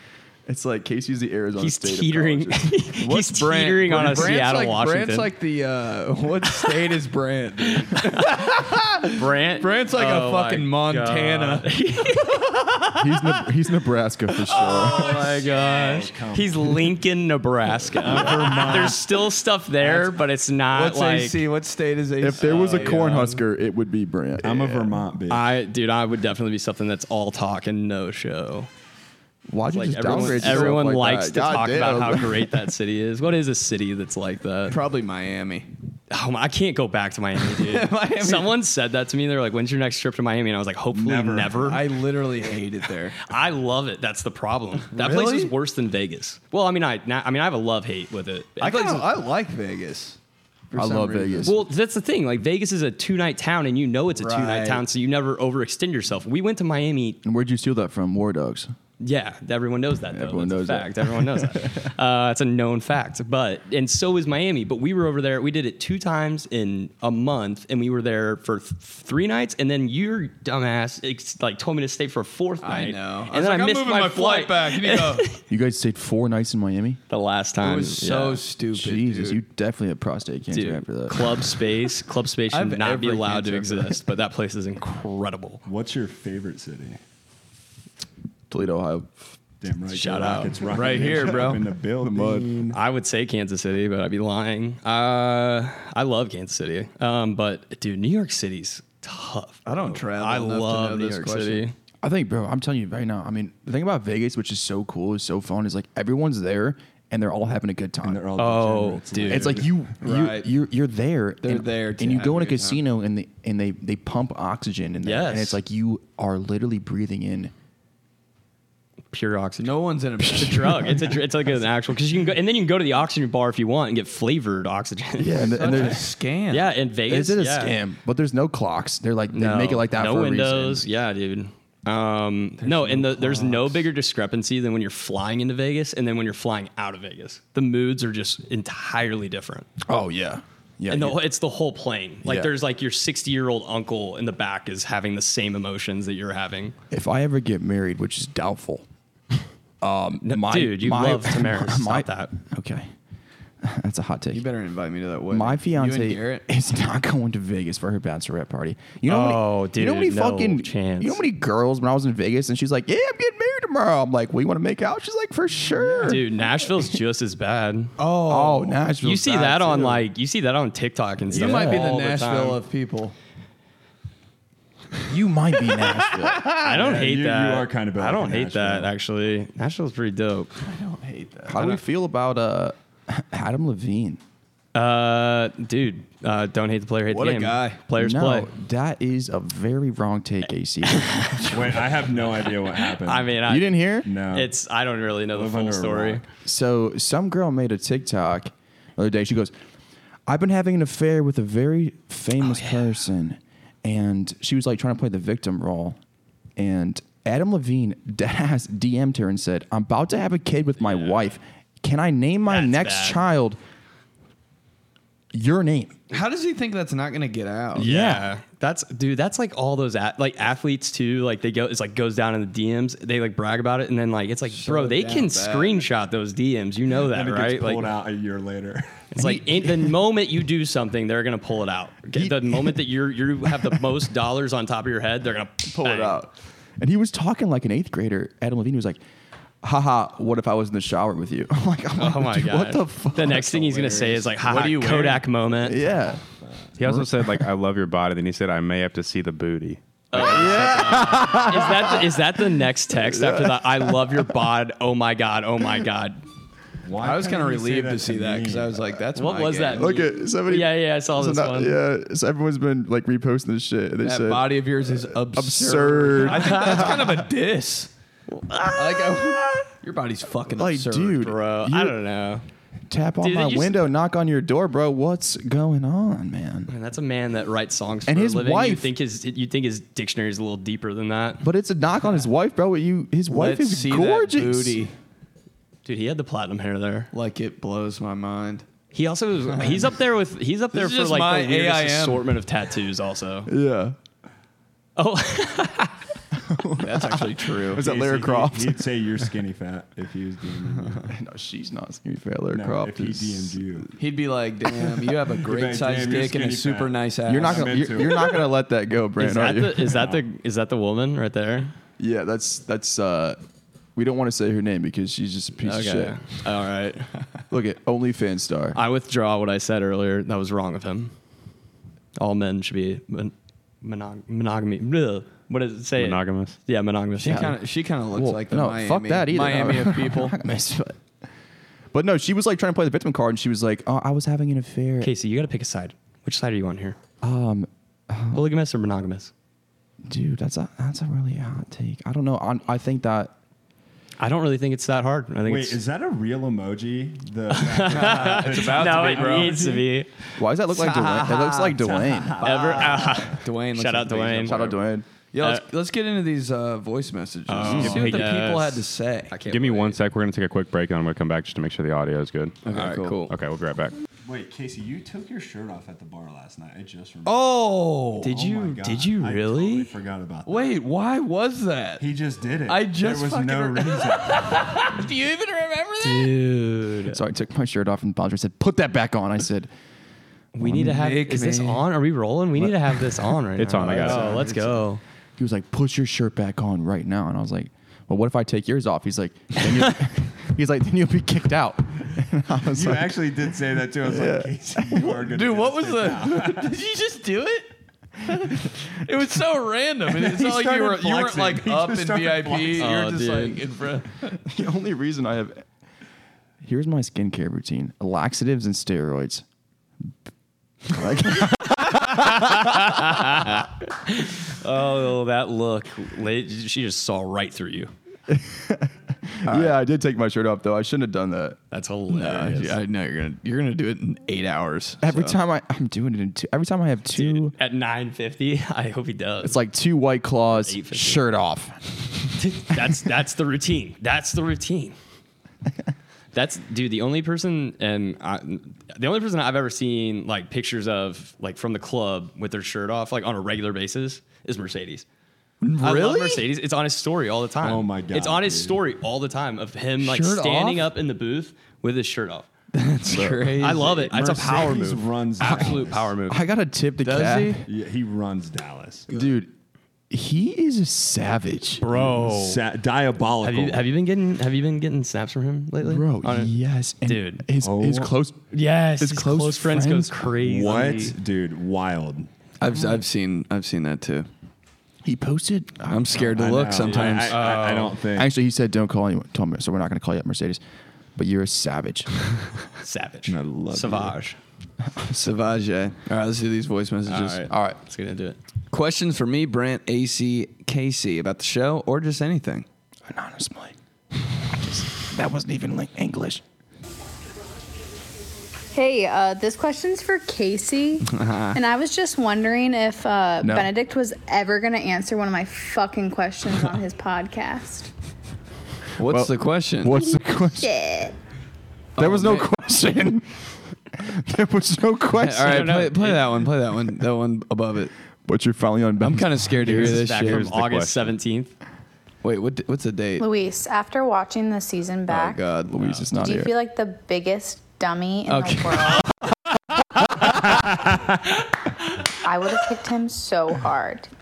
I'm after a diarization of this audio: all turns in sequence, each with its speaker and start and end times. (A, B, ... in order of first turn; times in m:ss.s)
0:00.5-0:02.9 A
0:01.6-0:05.3 B
0:03.0-0:11.7 C
0:08.0-0:08.4 B
0:09.1-0:12.4 B
0:13.0-0:15.1 A
0:14.5-0:16.9 D
0:14.6-0:21.4 B
0:18.0-0:19.1 D
0:18.2-0:18.9 C
0:19.8-0:20.2 C
0:20.7-0:23.4 C
0:22.2-0:25.0 A
0:22.4-0:23.0 B
0:24.4-0:25.4 D
0:25.3-0:28.7 B
0:29.5-0:32.5 A
0:29.7-0:34.8 B
0:30.0-0:30.8 C
0:34.7-0:35.7 C
0:36.1-0:41.9 B
0:37.6-0:38.6 C
0:40.9-0:41.8 D
0:41.6-0:43.2 C
0:43.2-0:49.1 B
0:44.9-0:45.5 C
0:48.6-0:50.2 C
0:50.7-0:51.5 C
0:50.7-0:51.7 A
0:51.4-0:57.2 B
0:54.2-0:54.8 C
0:57.2-0:58.7 A
0:59.0-1:15.4 B
1:00.1-1:01.9 A
1:12.6-1:15.3 C
1:15.5-1:17.0 A
1:17.1-1:18.4 B
1:17.6-1:19.4 C
1:18.7-1:21.5 A
1:20.5-1:25.6 B
1:22.5-1:24.0 C
1:25.7-1:27.0 D
1:28.5-1:29.1 A
1:29.6-1:32.8 D
1:29.9-1:31.3 B
1:30.6-1:32.4 C
1:32.7-1:41.7 B
1:39.7-1:41.6 C
1:42.0-1:48.2 A
1:48.0-1:49.8 D
1:48.4-1:49.6 B
1:49.3-1:57.5 A
1:50.0-1:50.5 C
1:51.4-1:52.8 C
1:55.0-1:55.6 B
1:59.1-1:59.7 B
1:59.6-2:01.0 C
2:00.2-2:06.0 B
2:05.2-2:06.1 A
2:05.4-2:06.7 C
2:06.5-2:07.8 B
2:07.1-2:10.9 A
2:09.3-2:19.7 B
2:12.6-2:13.9 C
2:19.8-2:21.2 A
2:20.9-2:26.8 B
2:22.2-2:22.5 A
2:26.9-2:28.9 A
2:29.8-2:32.9 A
2:30.2-2:32.3 B
2:33.6-2:34.4 A
2:34.3-2:36.4 C
2:35.3-2:46.3 A
2:39.0-2:41.2 B
2:45.8-2:46.2 D
2:46.1-2:47.9 B
2:48.0-2:48.8 C
2:48.3-2:50.1 A
2:49.0-2:52.6 B
2:51.3-2:53.2 C
2:51.4-2:51.8 A
2:55.1-2:56.6 A
2:56.6-2:58.9 D
2:56.6-3:00.5 B
3:00.6-3:01.8 C
3:01.5-3:04.2 A
3:04.8-3:08.5 B
3:07.1-3:07.8 C
3:08.0-3:11.5 A
3:11.5-3:13.4 D
3:12.2-3:16.2 B
3:13.5-3:14.1 A
3:14.0-3:14.5 D
3:15.3-3:16.2 D
3:16.4-3:19.5 A
3:20.3-3:26.0 A
3:22.4-3:22.8 B
3:26.6-3:33.6 A
3:30.9-3:31.3 B
3:32.5-3:33.2 B
3:35.3-3:36.0 A
3:36.1-3:37.9 C
3:37.8-3:38.3 A
3:37.8-3:48.0 B
3:44.5-3:45.9 C
3:47.0-3:49.1 D
3:49.1-3:56.2 B
3:49.2-3:49.9 A
3:52.1-3:52.8 A
3:53.4-3:53.8 A
3:55.7-3:59.0 A
3:59.6-4:03.7 A
4:02.0-4:05.8 B
4:03.5-4:05.3 C
4:05.6-4:06.2 A
4:06.4-4:06.7 D
4:06.8-4:09.8 E
4:06.8-4:07.5 A
4:10.1-4:16.2 B
4:10.2-4:12.2 A
4:12.9-4:14.2 A
4:16.8-4:18.8 D
4:17.0-4:20.0 C
4:19.2-4:21.8 B
4:19.8-4:27.2 A
4:24.0-4:27.9 C
4:26.2-4:27.0 B
4:28.4-4:29.7 A
4:28.7-4:31.2 C
4:30.6-4:32.0 A
4:31.2-4:32.4 B
4:32.9-4:36.7 A
4:33.2-4:33.8 B
4:36.7-4:41.4 B
4:38.1-4:38.9 A
4:41.4-4:44.9 A
4:43.3-4:45.0 C
4:45.8-4:47.1 B
4:47.1-4:48.6 C
4:48.9-4:53.5 B
4:50.7-4:52.3 C
4:53.5-4:54.0 A
4:55.0-4:56.0 B
4:56.4-4:58.9 A
4:56.8-4:57.8 C
4:57.8-5:01.1 D
5:01.1-5:03.6 A
5:02.5-5:04.0 D
5:04.0-5:07.9 C
5:05.3-5:08.4 D
5:07.3-5:10.0 A
5:09.2-5:11.7 B
5:09.9-5:10.2 D
5:12.0-5:13.4 A
5:14.0-5:16.2 A
5:15.6-5:17.1 B
5:17.5-5:18.8 A
5:18.7-5:21.1 B
5:22.2-5:27.5 B
5:26.0-5:26.6 E
5:27.2-5:30.4 C
5:27.2-5:27.6 A
5:28.1-5:31.0 A
5:31.9-5:35.1 A
5:35.0-5:37.0 B
5:37.2-5:38.5 A
5:38.3-5:39.3 B
5:40.1-5:43.3 A
5:44.2-5:45.8 B
5:45.5-5:49.8 D
5:47.5-5:50.4 B
5:47.9-5:49.8 C
5:50.4-5:52.4 A
5:50.7-5:54.8 C
5:51.8-5:53.4 D
5:52.4-5:54.6 B
5:54.4-5:55.1 A
5:55.3-5:59.3 C
5:57.5-6:00.0 B
5:57.6-5:58.2 A
5:59.5-6:02.6 E
6:02.6-6:03.2 C
6:02.7-6:03.3 B
6:03.3-6:03.9 E
6:04.2-6:07.5 D
6:07.2-6:08.4 C
6:08.2-6:09.9 B
6:08.2-6:10.8 D
6:10.5-6:12.1 C
6:12.0-6:14.9 D
6:12.7-6:16.3 C
6:16.0-6:17.2 B
6:17.1-6:19.7 A
6:20.5-6:25.0 B
6:20.6-6:21.0 A
6:20.9-6:21.8 C
6:23.6-6:24.4 E
6:24.0-6:24.7 D
6:25.4-6:35.2 A
6:32.7-6:36.7 D
6:35.2-6:37.7 C
6:38.2-6:44.4 C
6:40.1-6:42.9 D
6:42.8-6:43.6 B
6:44.4-6:45.6 A
6:46.6-6:49.4 A
6:50.9-6:52.8 A
6:52.0-6:57.9 B
6:58.3-7:01.6 A
6:59.5-6:59.8 C
7:01.7-7:02.8 B
7:02.1-7:05.4 C
7:05.0-7:07.5 A
7:07.1-7:09.6 B
7:09.4-7:12.0 A
7:10.5-7:11.2 B
7:12.4-7:15.0 B
7:16.3-7:25.0 B
7:25.6-7:26.4 C
7:25.8-7:32.5 B
7:27.6-7:28.8 D
7:30.0-7:30.8 A
7:32.7-7:34.1 C
7:33.1-7:33.6 A
7:33.6-7:36.4 B
7:34.1-7:36.1 D
7:35.4-7:37.7 A
7:37.0-7:37.6 C
7:37.7-7:39.1 D
7:39.1-7:39.5 A
7:40.1-7:41.8 A
7:41.8-7:42.6 B
7:41.9-7:43.8 D
7:43.4-7:47.5 B
7:45.8-7:50.3 A
7:47.6-7:48.1 D
7:48.5-7:51.2 B
7:50.4-7:52.3 D
7:52.6-7:54.3 C
7:55.0-7:56.3 A
7:55.9-7:57.4 C
7:56.2-7:58.3 D
7:56.8-7:58.0 B
7:58.2-8:00.6 A
8:01.2-8:02.1 A
8:02.8-8:04.4 B
8:03.3-8:04.2 D
8:05.1-8:07.4 C
8:07.1-8:08.4 B
8:07.5-8:07.8 A
8:08.7-8:12.7 C
8:13.1-8:16.4 A
8:18.7-8:27.9 F
8:21.1-8:21.6 C
8:23.4-8:23.7 A
8:29.0-8:30.0 C
8:29.0-8:30.7 A
8:30.0-8:31.2 F
8:32.0-8:32.5 C
8:32.0-8:35.8 A
8:35.2-8:37.9 C
8:35.4-8:36.4 B
8:38.3-8:39.9 A
8:39.0-8:40.5 C
8:39.7-8:41.5 B
8:39.7-8:41.2 E
8:42.2-8:43.3 C
8:43.2-8:45.5 F
8:45.1-8:46.0 C
8:45.7-8:46.5 A
8:46.1-8:49.1 F
8:48.3-8:49.1 C
8:52.2-8:54.1 F